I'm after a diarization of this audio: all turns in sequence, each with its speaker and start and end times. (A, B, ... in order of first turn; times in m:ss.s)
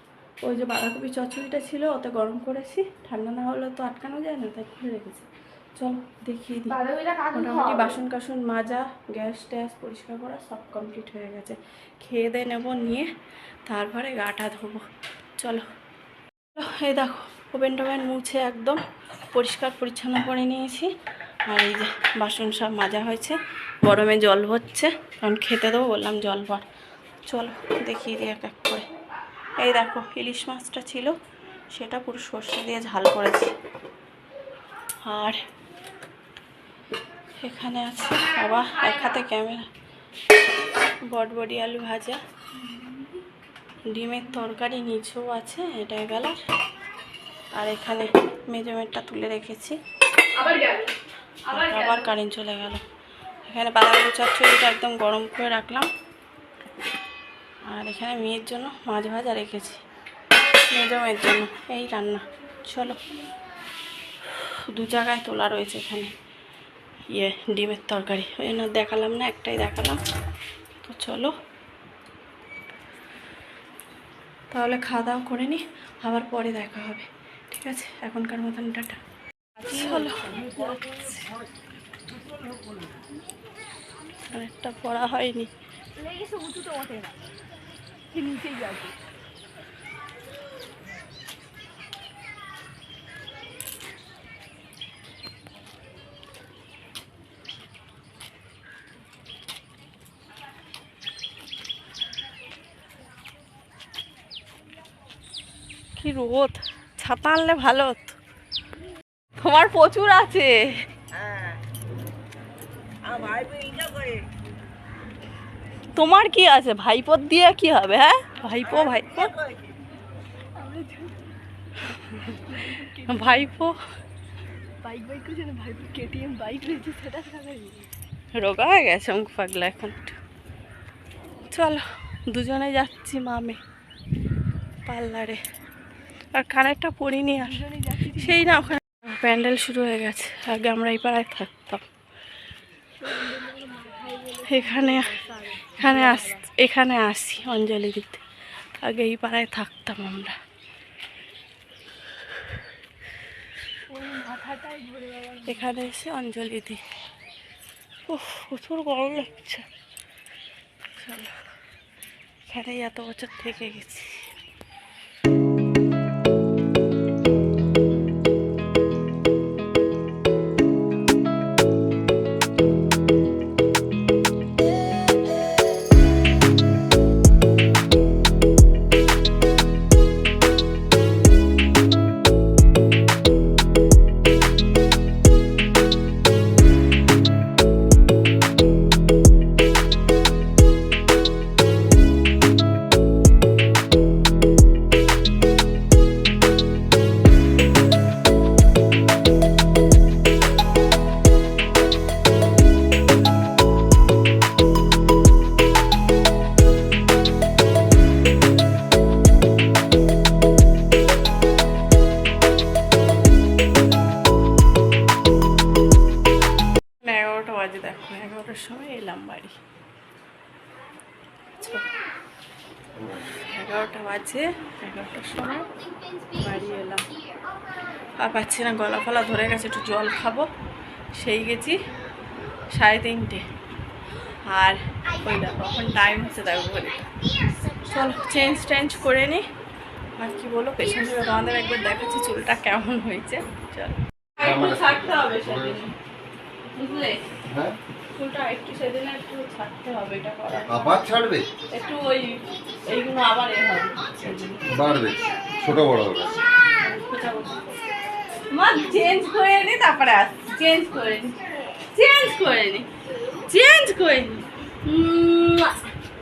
0:00.4-0:06.8 A
0:06.7-0:07.9 B
0:07.3-0:13.1 A
0:13.7-0:14.8 A
0:15.4-0:15.6 A
0:16.5-0:18.8 A
0:19.3-0:20.9 A
0:21.4-0:26.6 A
0:27.3-0:28.8 A
0:29.6-0:31.1 A
0:31.7-0:33.5 A
0:35.0-0:35.4 A
0:37.4-0:39.7 A
0:41.0-0:42.2 A
0:43.9-0:46.4 A
0:47.5-0:49.8 A
0:50.4-0:50.9 B
0:51.5-0:52.8 A
0:51.5-0:52.0 B
0:53.4-0:55.9 A
0:57.7-0:59.8 A
1:00.7-1:03.0 A
1:04.3-1:06.1 A
1:07.1-1:10.0 A
1:10.8-1:11.3 A
1:14.5-1:19.0 A
1:19.6-1:21.2 A
1:24.3-1:25.5 A
1:26.0-1:27.2 B
1:28.1-1:28.9 B
1:46.0-1:48.2 A
1:49.4-1:50.6 A
1:53.4-1:53.9 B
1:55.9-1:59.3 A
2:00.6-2:01.2 B
2:02.0-2:02.4 A
2:02.5-2:03.5 B
2:03.0-2:03.8 A
2:04.8-2:07.8 B
2:08.3-2:10.1 A
2:11.5-2:13.6 A
2:14.9-2:15.4 A
2:16.3-2:17.6 A
2:17.5-2:18.7 B
2:18.1-2:21.8 A
2:23.3-2:26.4 B
2:24.4-2:25.2 A
2:25.7-2:28.2 A
2:28.8-2:30.4 A
2:33.9-2:35.5 B
2:35.4-2:36.8 A
2:38.1-2:39.6 A
2:41.0-2:41.3 A
2:42.5-2:44.2 A
3:37.0-3:39.6 A
3:41.6-3:41.8 A
3:43.0-3:45.7 A
3:46.3-3:47.0 A
3:48.2-3:50.5 A
3:51.2-3:51.8 A
3:52.7-3:53.4 A
3:54.5-3:57.1 A
3:57.8-3:59.4 A
4:00.2-4:05.9 A
4:04.4-4:05.8 C
4:06.7-4:07.2 A
4:07.5-4:07.8 C
4:08.2-4:11.0 A
4:10.7-4:11.5 C
4:11.7-4:14.6 A
4:14.7-4:16.5 C
4:16.8-4:17.7 A
4:18.5-4:21.4 A
4:21.9-4:22.9 A
4:23.5-4:25.7 A